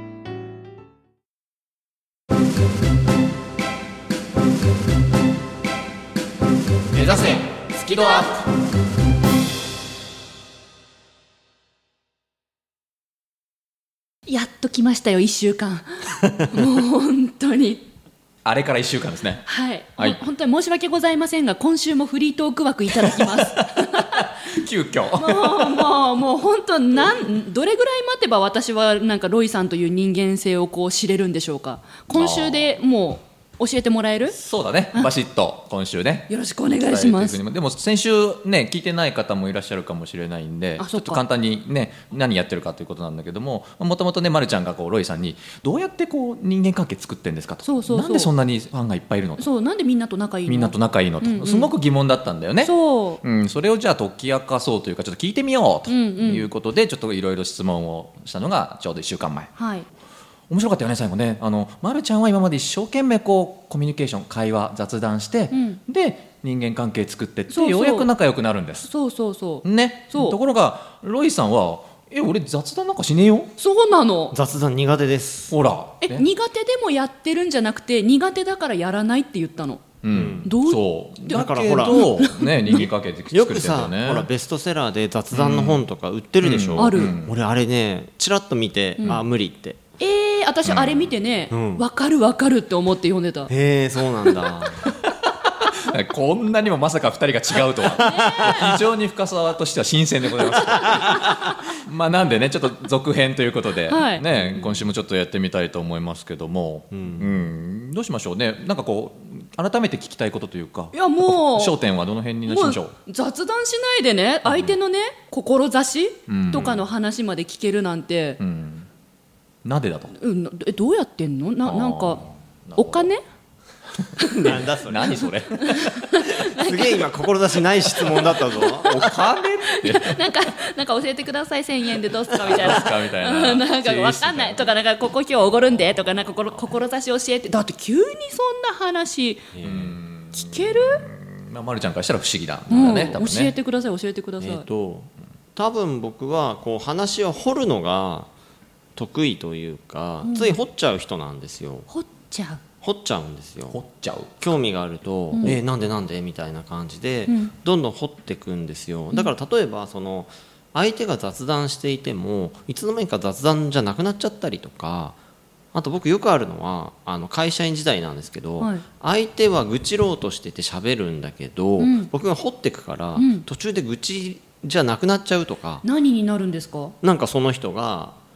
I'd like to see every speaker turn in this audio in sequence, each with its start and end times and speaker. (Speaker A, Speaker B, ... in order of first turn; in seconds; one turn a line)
Speaker A: 7.8-8.4
Speaker A: 14.3-17.9
Speaker B: 18.4-19.5
Speaker A: 19.5-24.3
Speaker B: 23.0-25.9
Speaker A: 25.1-34.4
Speaker B: 32.1-32.7
Speaker B: 34.3-49.5
Speaker A: 36.3-37.4
Speaker A: 40.8-41.2
Speaker A: 47.6-48.3
Speaker A: 49.4-51.7
Speaker B: 50.5-59.5
Speaker A: 52.6-53.2
Speaker A: 55.9-56.5
Speaker A: 59.5-59.9
Speaker B: 60.5-68.9
Speaker A: 65.5-65.8
Speaker A: 67.5-68.1
Speaker A: 68.8-70.4
Speaker B: 69.6-73.5
Speaker A: 73.6-74.3
Speaker C: 74.3-75.5
Speaker B: 75.5-76.2
Speaker A: 76.0-79.8
Speaker B: 80.0-84.3
Speaker C: 80.1-80.5
Speaker A: 80.4-82.8
Speaker C: 81.3-82.1
Speaker C: 82.8-89.8
Speaker B: 85.3-85.8
Speaker B: 86.4-87.3
Speaker A: 86.8-87.2
Speaker A: 90.0-93.5
Speaker B: 90.6-91.1
Speaker C: 91.5-91.8
Speaker C: 93.5-94.9
Speaker B: 94.8-112.9
Speaker A: 98.0-98.7
Speaker C: 98.0-98.8
Speaker A: 100.7-101.5
Speaker A: 103.9-104.2
Speaker C: 104.5-104.8
Speaker C: 106.9-107.4
Speaker A: 110.9-111.8
Speaker A: 112.5-118.4
Speaker B: 116.3-116.8
Speaker C: 116.6-116.8
Speaker B: 118.4-118.9
Speaker B: 119.6-120.1
Speaker A: 120.2-122.2
Speaker B: 121.6-123.1
Speaker A: 122.8-123.2
Speaker B: 124.0-126.1
Speaker A: 124.2-124.5
Speaker C: 124.2-125.4
Speaker A: 125.6-127.0
Speaker C: 126.3-129.1
Speaker A: 128.6-129.1
Speaker B: 128.8-130.2
Speaker A: 129.6-139.5
Speaker B: 132.4-134.7
Speaker C: 139.5-140.0
Speaker B: 139.6-143.5
Speaker A: 140.3-141.0
Speaker A: 142.7-144.7
Speaker C: 144.4-148.3
Speaker C: 148.9-151.9
Speaker A: 150.2-150.5
Speaker A: 151.9-152.6
Speaker C: 152.8-153.8
Speaker B: 153.7-154.3
Speaker C: 154.4-165.2
Speaker A: 157.3-157.5
Speaker C: 165.7-175.8
Speaker A: 168.6-168.8
Speaker A: 171.8-172.1
Speaker A: 173.2-173.4
Speaker A: 175.8-176.9
Speaker C: 177.0-178.2